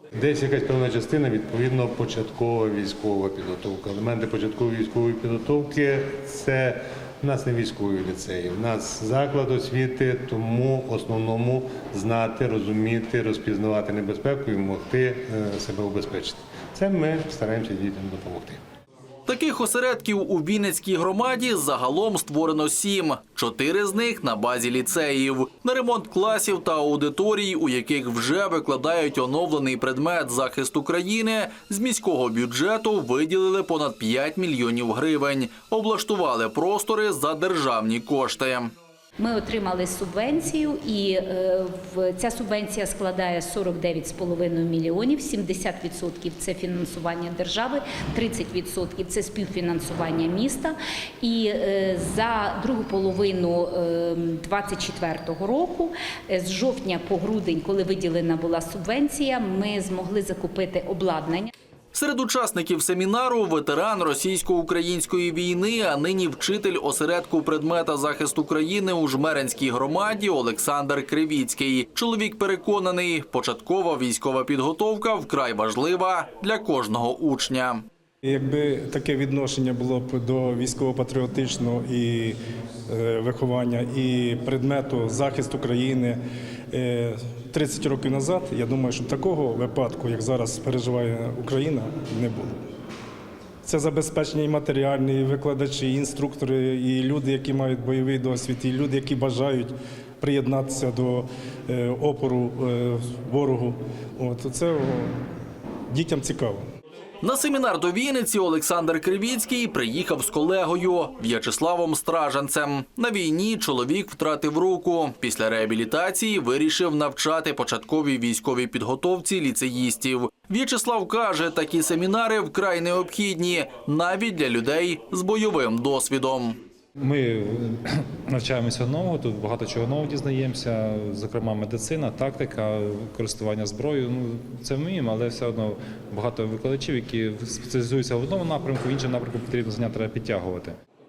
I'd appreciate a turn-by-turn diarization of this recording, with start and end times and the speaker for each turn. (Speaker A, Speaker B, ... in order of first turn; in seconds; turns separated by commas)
Speaker A: 0.1-18.6, Speaker B: 19.3-38.7, Speaker C: 39.2-61.5, Speaker B: 61.9-77.8, Speaker D: 78.2-86.2, Speaker D: 86.7-92.6, Speaker D: 93.7-105.1, Speaker D: 105.9-106.6, Speaker B: 107.2-126.6, Speaker E: 127.0-140.8